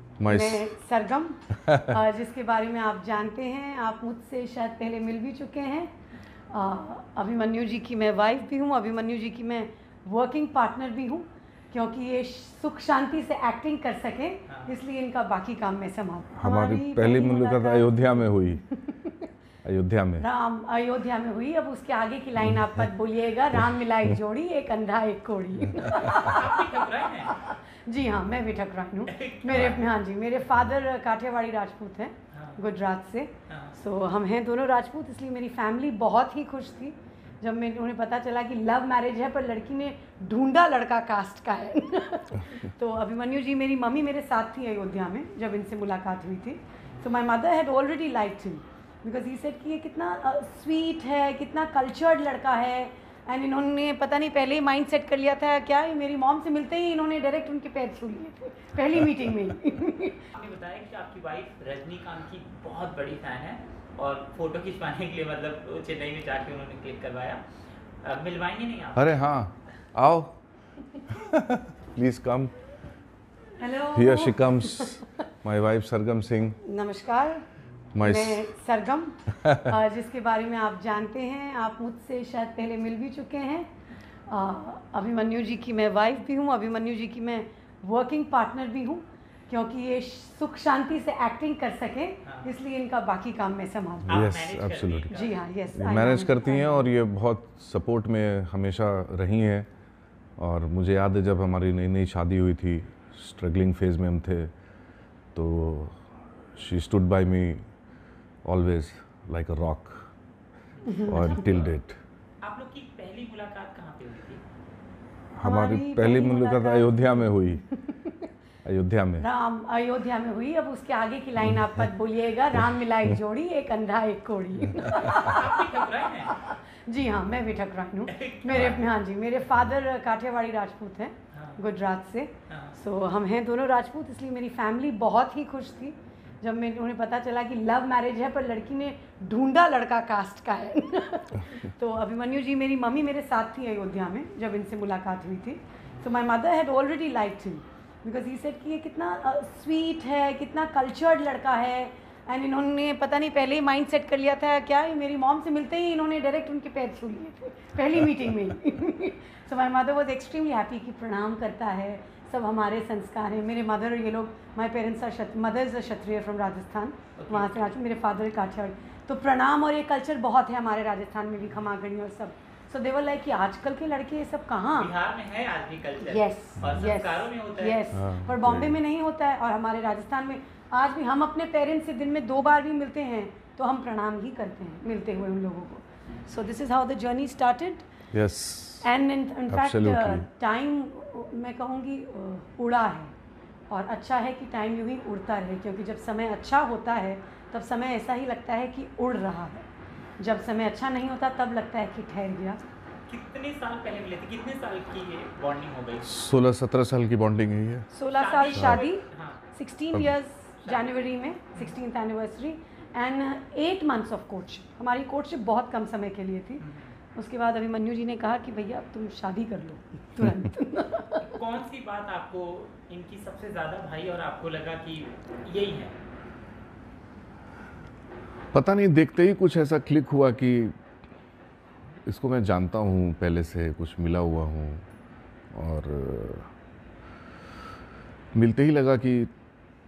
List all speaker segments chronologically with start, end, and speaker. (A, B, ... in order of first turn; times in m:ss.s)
0:00.2-0:00.7 A
0:00.3-0:05.9 B
0:06.5-0:19.2 B
0:14.5-0:14.8 C
0:16.4-0:18.6 A
0:19.6-0:20.2 A
0:20.2-1:00.3 B
0:26.0-0:27.4 C
0:29.1-0:29.8 C
0:32.3-0:32.6 C
0:33.5-0:33.8 C
1:00.4-1:07.4 C
1:08.0-1:09.2 C
1:09.0-1:10.4 A
1:11.1-1:12.5 A
1:13.6-1:15.2 B
1:13.9-1:16.6 A
1:16.6-1:17.4 B
1:17.9-1:18.5 A
1:18.0-1:23.7 B
1:24.3-1:34.2 B
1:34.1-1:35.1 A
1:34.1-1:35.4 C
1:35.1-1:36.9 B
1:35.8-1:39.7 A
1:40.4-1:44.5 A
1:45.3-1:46.0 A
1:46.6-1:47.6 A
1:48.4-1:50.1 A
1:50.8-1:51.7 C
1:50.9-1:51.4 B
1:51.0-1:52.0 A
1:52.4-1:54.4 C
1:55.4-1:57.6 A
1:55.4-1:58.2 B
1:58.6-1:59.3 A
1:59.2-2:54.9 B
2:05.0-2:06.4 C
2:08.1-2:08.8 C
2:11.3-2:11.6 C
2:12.5-2:12.8 C
2:47.2-2:47.7 C
2:54.7-2:57.8 C
2:56.0-3:07.9 B
2:57.9-2:58.8 A
3:08.1-3:08.9 A
3:08.8-3:13.1 B
3:09.5-3:10.3 A
3:13.7-3:19.7 B
3:20.2-3:22.6 B
3:23.1-3:26.1 C
3:26.0-3:27.9 A
3:27.9-3:36.6 B
3:28.1-3:29.4 C
3:28.6-3:28.8 A
3:36.6-3:36.9 C
3:37.2-3:41.4 B
3:41.2-3:46.0 C
3:48.5-3:50.8 A
3:52.0-3:54.8 A
3:55.5-3:56.5 A
3:58.3-3:59.3 A